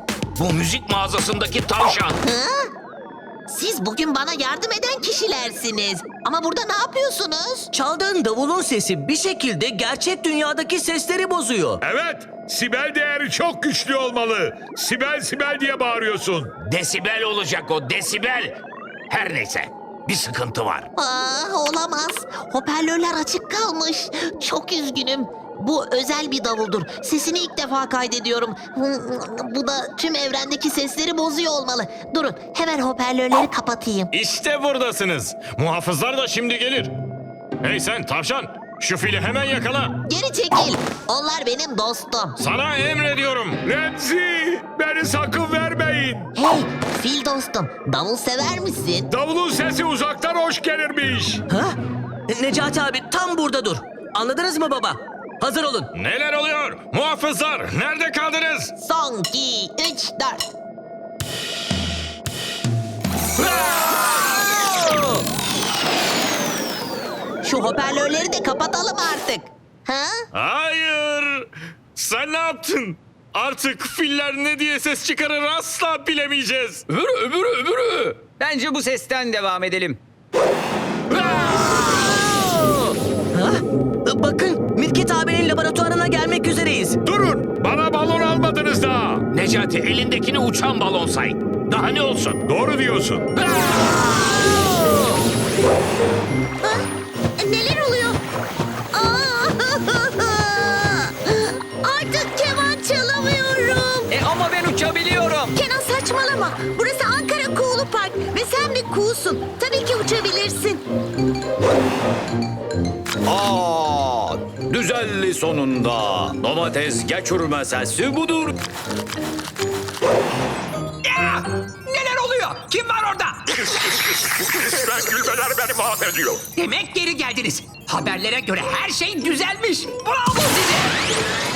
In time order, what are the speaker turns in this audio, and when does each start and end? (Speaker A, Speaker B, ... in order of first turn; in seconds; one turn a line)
Speaker A: 0.4-2.2
Speaker B: 2.3-2.5
Speaker B: 3.5-7.7
Speaker C: 7.7-11.8
Speaker D: 11.8-16.5
Speaker A: 16.6-18.6
Speaker A: 19.1-20.9
Speaker B: 21.0-34.1
Speaker E: 34.1-36.9
Speaker E: 37.6-40.0
Speaker B: 40.1-42.4
Speaker E: 42.4-43.6
Speaker D: 43.6-46.3
Speaker B: 46.4-49.1
Speaker D: 49.1-51.4
Speaker C: 51.5-51.8
Speaker C: 52.3-55.9
Speaker E: 56.0-58.7
Speaker B: 58.8-60.4
Speaker B: 67.4-70.2
Speaker E: 70.3-76.8
Speaker F: 76.9-80.0
Speaker C: 81.1-87.0
Speaker D: 87.0-89.2
Speaker A: 89.3-92.4
Speaker D: 92.5-93.3
Speaker G: 97.4-98.2
Speaker G: 98.9-104.1
Speaker F: 104.1-105.6
Speaker G: 105.5-110.8
Speaker H: 121.0-123.5
Speaker D: 124.1-126.4
Speaker H: 126.5-130.9